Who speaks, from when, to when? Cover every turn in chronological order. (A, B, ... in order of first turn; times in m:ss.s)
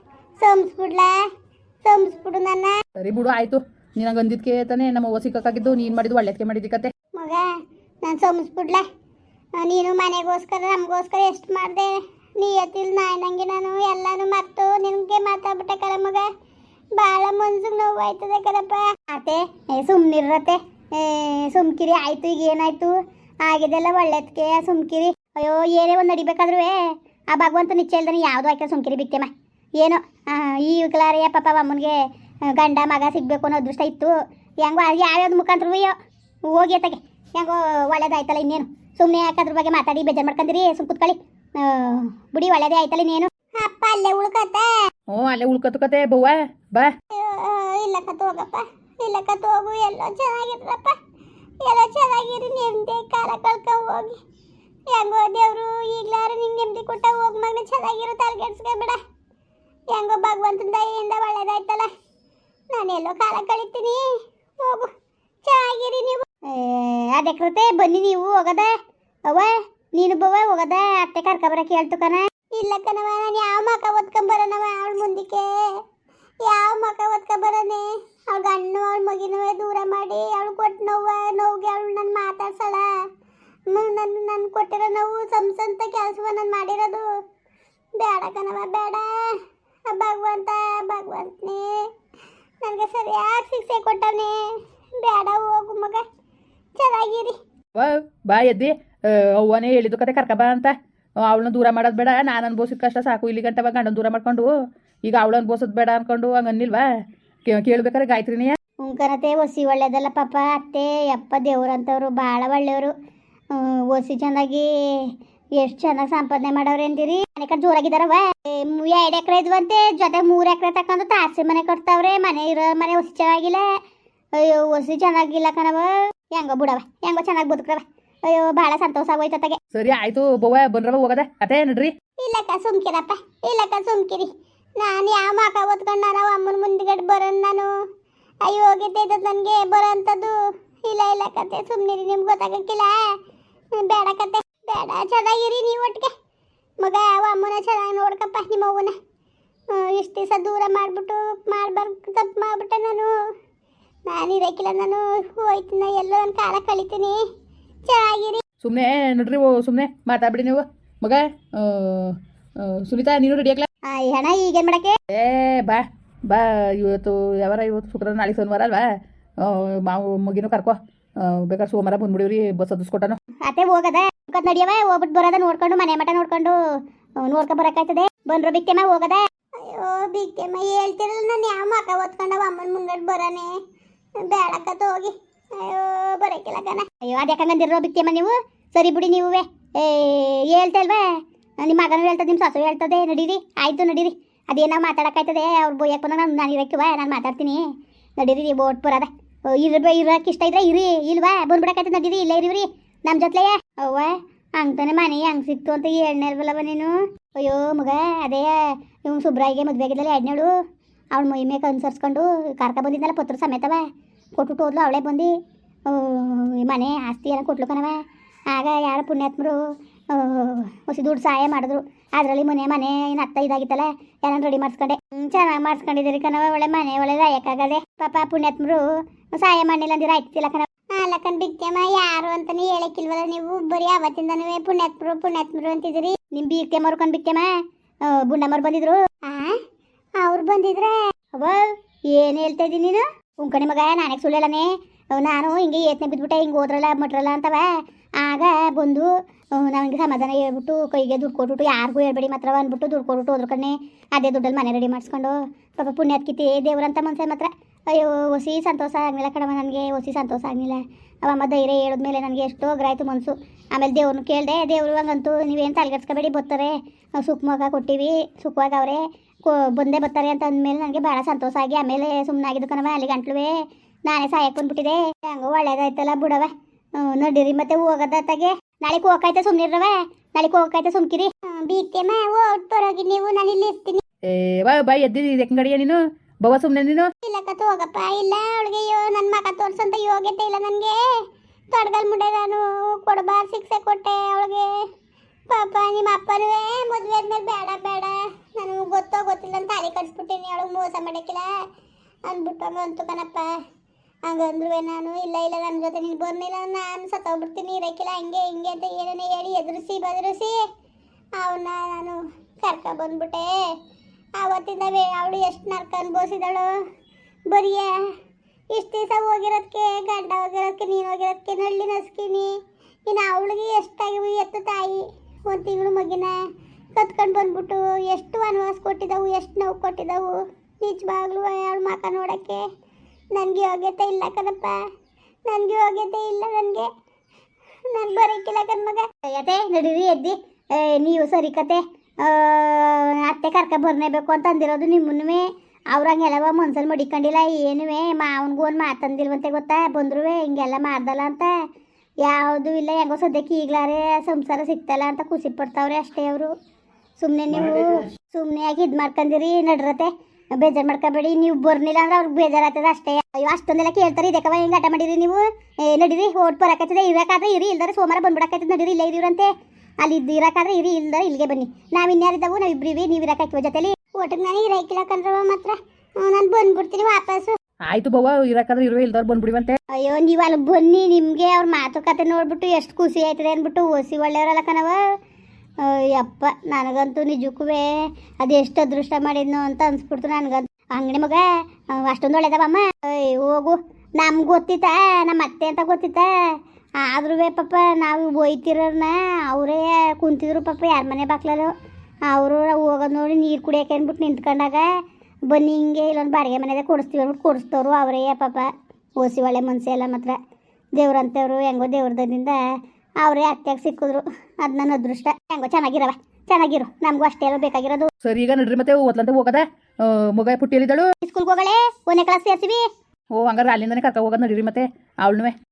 0:00.4-0:01.2 A
0:01.8-0:02.8 A
0:03.0-0:06.9 B
0:07.2-0:08.8 A
0:09.6-0:16.3 A
0:17.0-0:36.0 A
0:36.5-0:44.8 A
0:45.1-0:46.9 B
0:47.1-0:51.0 A
0:51.6-0:54.2 A
0:54.9-0:59.0 A
0:59.9-1:01.9 A
1:02.7-1:04.9 A
1:05.4-1:08.8 A
1:09.3-1:15.8 A
1:16.4-1:22.9 A
1:23.7-1:27.1 A
1:28.0-1:31.9 A
1:32.6-1:36.0 A
1:36.8-1:37.4 A
1:37.8-1:40.7 B
1:41.2-1:44.5 B
1:45.1-1:46.8 B
1:47.5-1:48.6 B
1:48.8-1:52.9 A
1:53.5-2:03.7 A
2:04.4-2:09.6 A
2:09.7-2:11.9 B
2:12.2-2:17.7 A
2:18.4-2:23.1 A
2:23.8-2:26.1 A
2:26.8-2:29.0 A
2:29.7-2:33.2 A
2:34.1-2:37.2 A
2:37.9-2:38.4 A
2:38.6-2:43.7 B
2:43.9-2:45.0 A
2:45.1-2:48.8 B
2:49.4-2:53.2 B
2:53.4-2:56.6 A
2:57.2-3:03.6 A
3:04.2-3:17.6 A
3:18.2-3:30.5 A
3:31.1-3:33.8 A
3:34.4-3:35.3 A
3:35.9-3:39.6 A
3:40.1-3:59.6 A
4:00.2-4:33.6 A
4:34.1-4:44.0 A
4:44.3-4:47.1 B
4:47.2-4:51.0 A
4:51.7-4:54.8 A
4:55.5-5:01.5 A
5:02.3-5:03.5 A
5:04.3-5:10.6 A
5:11.4-5:13.6 A
5:14.4-5:16.7 A
5:17.5-5:18.0 A
5:18.7-5:22.5 A
5:23.1-5:26.4 A
5:27.0-5:32.7 A
5:33.3-5:34.9 A
5:35.5-5:36.9 A
5:37.9-5:51.5 A
5:52.2-5:56.5 A
5:57.2-6:17.6 A
6:17.9-6:19.8 B
6:19.9-6:25.0 A
6:25.8-6:41.7 A
6:42.3-6:44.9 A
6:45.5-6:50.4 A
6:51.0-6:58.1 A
6:58.2-7:01.1 B
7:01.2-7:02.8 A
7:03.3-7:05.6 B